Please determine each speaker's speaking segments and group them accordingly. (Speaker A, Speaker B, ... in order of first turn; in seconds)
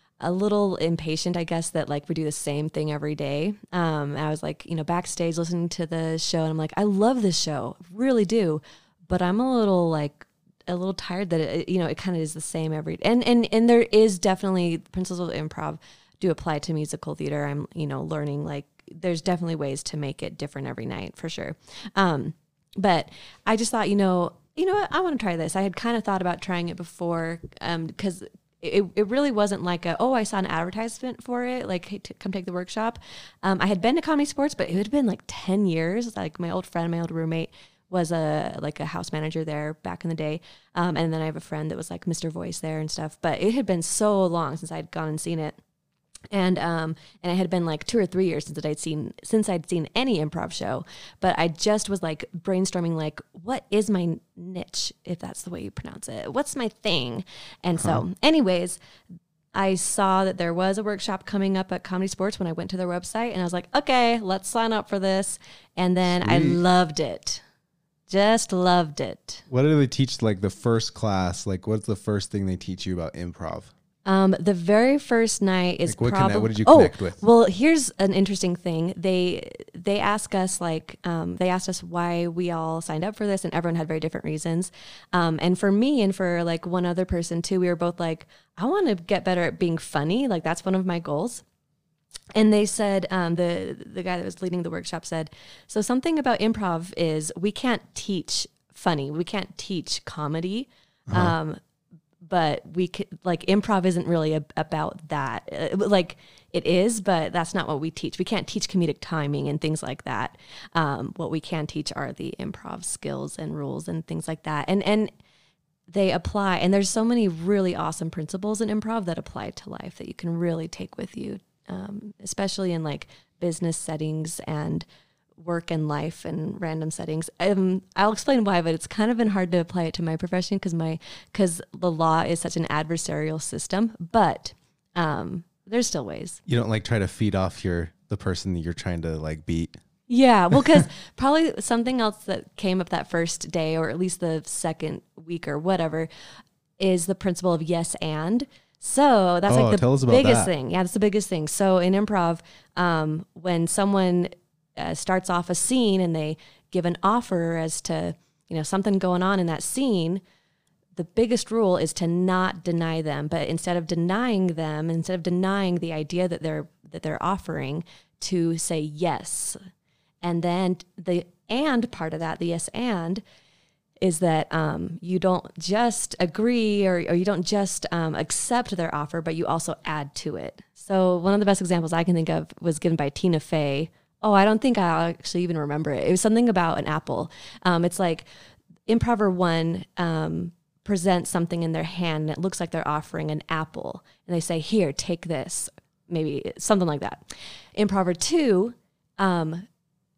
Speaker A: 0.2-45.6, 46.3-58.8, 59.5-67.4, 68.1-69.4, 74.0-91.4, 92.3-101.6, 102.2-115.1, 115.9-124.8, 125.4-136.4, 140.1-146.1, 146.8-160.2, 161.0-169.6, 170.2-173.2, 174.0-188.3, 188.9-197.2, 197.8-199.7
Speaker B: 57.8-58.0, 66.1-66.6, 69.5-73.7, 75.9-77.2, 101.1-101.3, 136.5-139.8, 140.5-140.8, 149.5-150.5